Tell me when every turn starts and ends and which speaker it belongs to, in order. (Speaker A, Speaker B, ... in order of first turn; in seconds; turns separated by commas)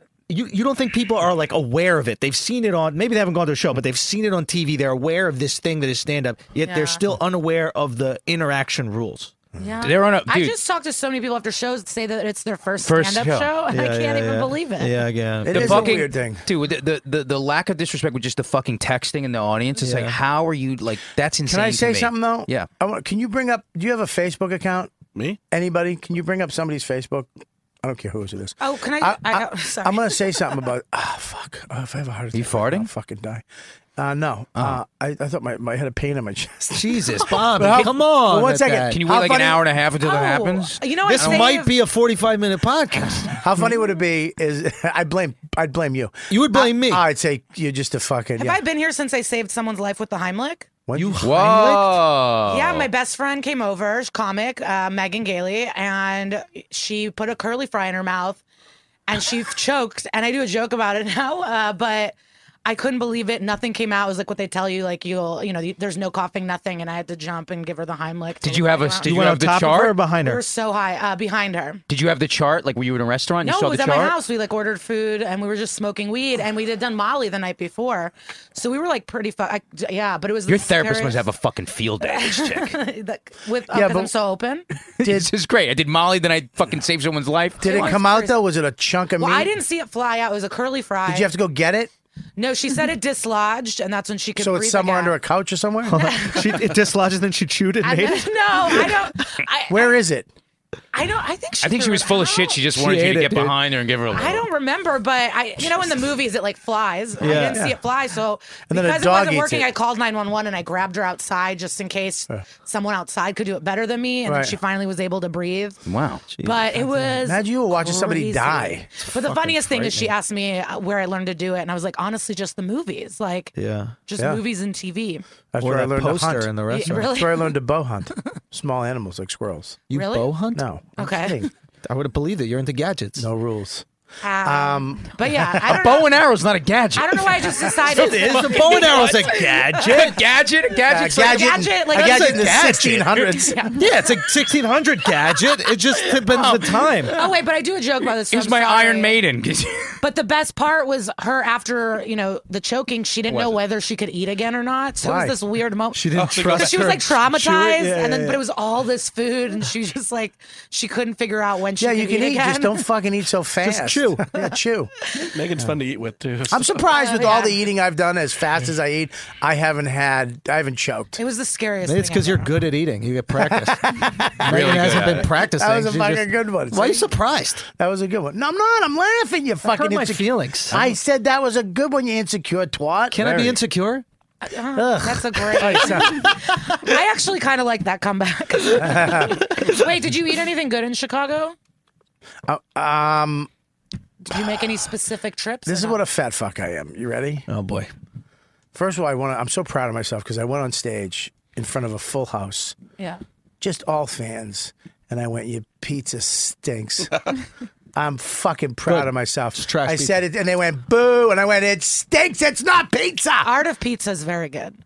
Speaker A: 0.3-9.3, Speaker B: 6.6-7.0, Speaker B: 9.6-15.0, Speaker C: 9.8-10.6, Speaker C: 12.8-13.5, Speaker A: 13.7-15.9, Speaker D: 15.4-16.4, Speaker C: 15.5-22.7, Speaker A: 19.8-20.2, Speaker D: 21.4-24.9, Speaker D: 25.5-27.3, Speaker D: 27.8-33.4, Speaker B: 28.6-30.4, Speaker C: 32.3-32.9, Speaker D: 34.0-39.6, Speaker A: 36.7-39.0, Speaker C: 38.9-41.5, Speaker B: 40.0-41.7, Speaker A: 41.0-43.4, Speaker D: 43.4-48.6, Speaker A: 46.3-47.0, Speaker B: 48.4-50.7, Speaker D: 50.9-51.7, Speaker A: 50.9-51.9, Speaker C: 51.2-52.9, Speaker B: 52.5-58.4, Speaker B: 59.1-69.1, Speaker C: 68.4-70.0, Speaker A: 69.0-70.4, Speaker B: 70.2-71.8, Speaker C: 71.9-74.2, Speaker B: 73.4-81.2, Speaker C: 80.5-82.7, Speaker B: 82.0-84.6, Speaker D: 83.7-84.1, Speaker C: 85.0-87.9, Speaker D: 85.0-85.3, Speaker D: 87.6-89.5, Speaker B: 87.6-88.4, Speaker B: 89.2-91.3, Speaker D: 91.0-91.9, Speaker B: 92.4-95.2, Speaker D: 94.4-96.2, Speaker A: 95.8-98.3, Speaker B: 96.0-96.6, Speaker B: 97.8-100.0, Speaker D: 99.7-100.3, Speaker B: 100.9-102.6, Speaker C: 101.6-104.5, Speaker A: 102.8-103.5, Speaker B: 104.1-115.8, Speaker A: 107.2-107.7, Speaker D: 107.4-107.8, Speaker D: 108.7-109.7, Speaker D: 114.2-114.6, Speaker C: 115.8-116.2, Speaker A: 116.3-117.1, Speaker B: 116.4-123.5, Speaker D: 117.2-118.9, Speaker A: 119.2-120.1, Speaker A: 123.5-123.9, Speaker B: 124.1-125.2, Speaker D: 124.2-124.4, Speaker D: 125.5-129.8, Speaker A: 125.6-127.1, Speaker B: 126.7-127.5, Speaker A: 129.9-130.6, Speaker B: 129.9-130.3, Speaker D: 130.5-131.5, Speaker B: 131.0-131.4, Speaker A: 131.8-133.3, Speaker D: 133.2-133.8, Speaker B: 134.2-136.2, Speaker D: 134.4-135.6, Speaker C: 135.6-141.4, Speaker B: 136.9-140.1, Speaker A: 138.0-140.2, Speaker D: 138.0-138.4, Speaker D: 140.8-143.6, Speaker B: 141.0-143.8, Speaker A: 141.9-143.0, Speaker A: 143.7-147.2, Speaker C: 146.3-147.3, Speaker B: 147.1-149.2, Speaker C: 148.3-150.0, Speaker B: 150.0-162.8, Speaker D: 155.0-155.4, Speaker A: 155.9-158.4, Speaker E: 156.1-157.0, Speaker D: 161.8-164.9, Speaker A: 163.6-164.3, Speaker E: 165.2-166.9, Speaker D: 166.5-171.2, Speaker B: 166.9-167.6, Speaker B: 171.2-172.5, Speaker A: 171.8-177.6, Speaker D: 173.3-177.1, Speaker C: 174.4-175.3, Speaker D: 177.8-183.6, Speaker A: 179.7-180.7, Speaker A: 183.1-184.0, Speaker B: 184.4-191.6, Speaker D: 184.7-186.3, Speaker D: 188.7-189.5, Speaker D: 192.5-193.5, Speaker B: 194.2-196.0, Speaker D: 194.3-194.6, Speaker D: 195.7-197.4, Speaker A: 197.5-197.9, Speaker D: 198.7-202.8, Speaker D: 203.6-207.1, Speaker D: 207.9-213.5, Speaker A: 208.8-210.2, Speaker B: 213.4-214.8